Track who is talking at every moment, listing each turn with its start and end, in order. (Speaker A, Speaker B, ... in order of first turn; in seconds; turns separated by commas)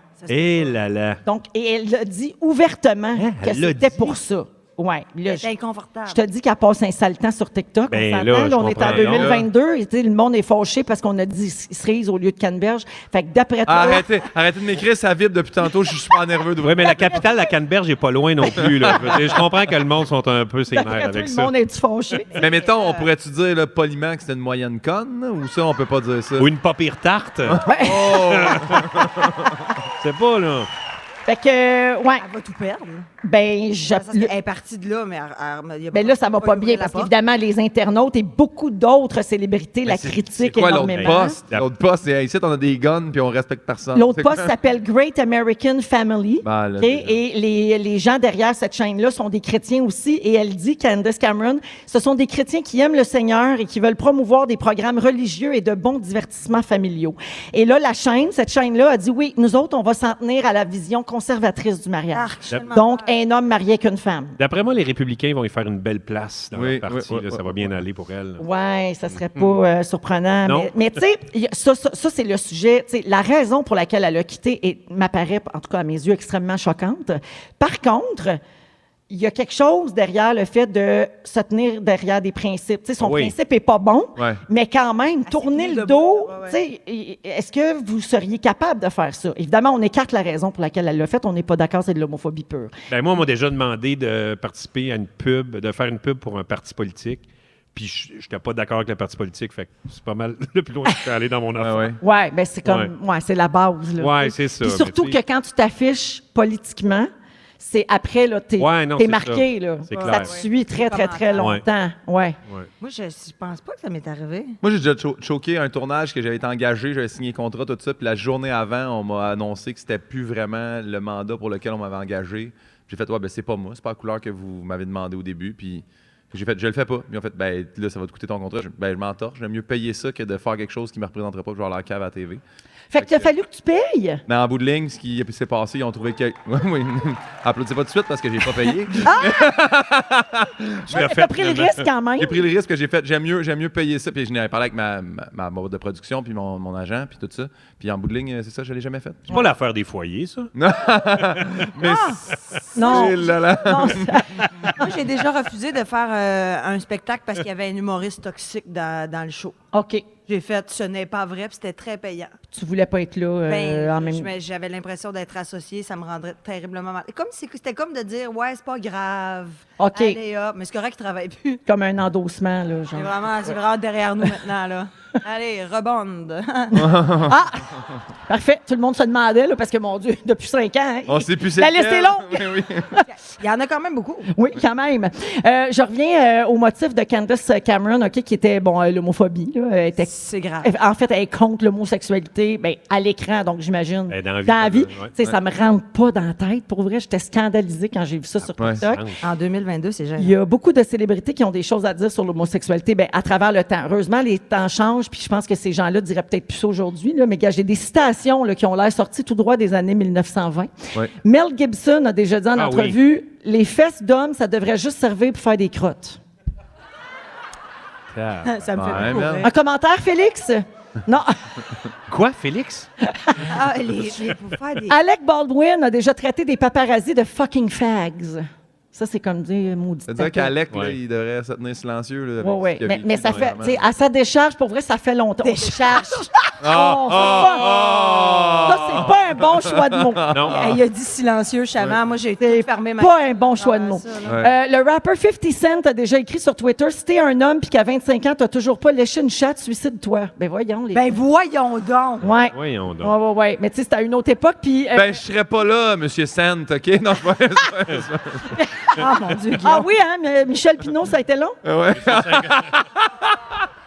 Speaker A: 0.2-0.8, Speaker B: 0.3-1.2, Speaker C: 1.2-5.5, Speaker B: 3.2-4.2, Speaker A: 5.3-6.2, Speaker C: 6.1-14.1, Speaker B: 7.9-9.3, Speaker D: 8.8-9.5, Speaker D: 13.7-17.3, Speaker B: 16.6-21.5, Speaker D: 18.4-19.4, Speaker C: 20.7-22.3, Speaker A: 22.3-23.1, Speaker D: 22.4-26.5, Speaker B: 26.4-29.3, Speaker D: 27.4-29.7, Speaker C: 27.7-28.3, Speaker B: 30.0-30.7, Speaker C: 31.3-32.2, Speaker A: 32.2-33.1, Speaker C: 33.2-34.3, Speaker A: 33.9-37.1, Speaker C: 35.9-41.4, Speaker D: 39.9-44.5, Speaker B: 40.6-41.7, Speaker C: 44.0-64.4, Speaker D: 46.4-47.2, Speaker A: 62.1-63.1, Speaker B: 64.4-68.4, Speaker D: 66.5-67.7, Speaker C: 68.4-78.4, Speaker B: 70.5-70.7, Speaker C: 79.1-92.7, Speaker B: 83.0-83.3, Speaker A: 85.3-86.6, Speaker B: 92.9-102.0, Speaker D: 101.6-102.0, Speaker C: 102.0-112.4, Speaker B: 102.7-102.9, Speaker B: 104.0-105.2, Speaker B: 108.6-110.3, Speaker A: 110.0-111.6, Speaker B: 111.4-111.6, Speaker A: 112.8-114.6, Speaker D: 114.6-132.4, Speaker C: 132.9-134.2, Speaker D: 133.0-133.3, Speaker D: 134.3-141.1, Speaker C: 139.1-139.5, Speaker B: 140.9-141.8, Speaker C: 140.9-142.4, Speaker D: 142.2-149.4, Speaker B: 149.3-150.5, Speaker D: 150.6-152.2, Speaker A: 151.8-152.2, Speaker D: 152.7-154.1, Speaker C: 152.8-154.7, Speaker A: 154.8-159.6, Speaker C: 159.7-160.1, Speaker A: 160.3-162.3, Speaker C: 162.5-164.3, Speaker A: 163.5-171.6, Speaker C: 169.8-170.2, Speaker C: 171.7-173.1, Speaker A: 172.9-176.8, Speaker D: 176.7-177.4, Speaker C: 177.2-177.7, Speaker C: 178.3-183.0, Speaker D: 181.1-182.9, Speaker A: 183.1-184.3, Speaker C: 184.3-190.1, Speaker A: 190.0-190.7, Speaker C: 190.6-199.0, Speaker B: 194.1-195.1, Speaker B: 198.4-199.2, Speaker D: 198.6-198.8, Speaker A: 199.2-200.3, Speaker C: 200.2-216.2, Speaker B: 212.6-213.0, Speaker B: 218.1-219.2, Speaker A: 218.5-219.5, Speaker D: 218.8-219.5, Speaker C: 219.4-221.4, Speaker B: 222.1-222.9, Speaker C: 223.2-223.5, Speaker A: 223.5-224.9, Speaker C: 224.9-230.5, Speaker D: 230.1-233.8, Speaker C: 232.4-237.7, Speaker A: 235.4-236.5, Speaker D: 236.6-240.8, Speaker C: 238.6-240.3, Speaker B: 240.3-240.7, Speaker A: 240.5-244.3, Speaker C: 242.4-251.1, Speaker D: 244.3-244.5, Speaker A: 250.9-252.2, Speaker C: 252.2-255.2, Speaker B: 252.3-253.1, Speaker D: 254.9-258.6, Speaker C: 258.6-258.9, Speaker A: 258.9-259.9, Speaker C: 259.6-261.6, Speaker D: 261.6-263.6, Speaker B: 261.9-262.7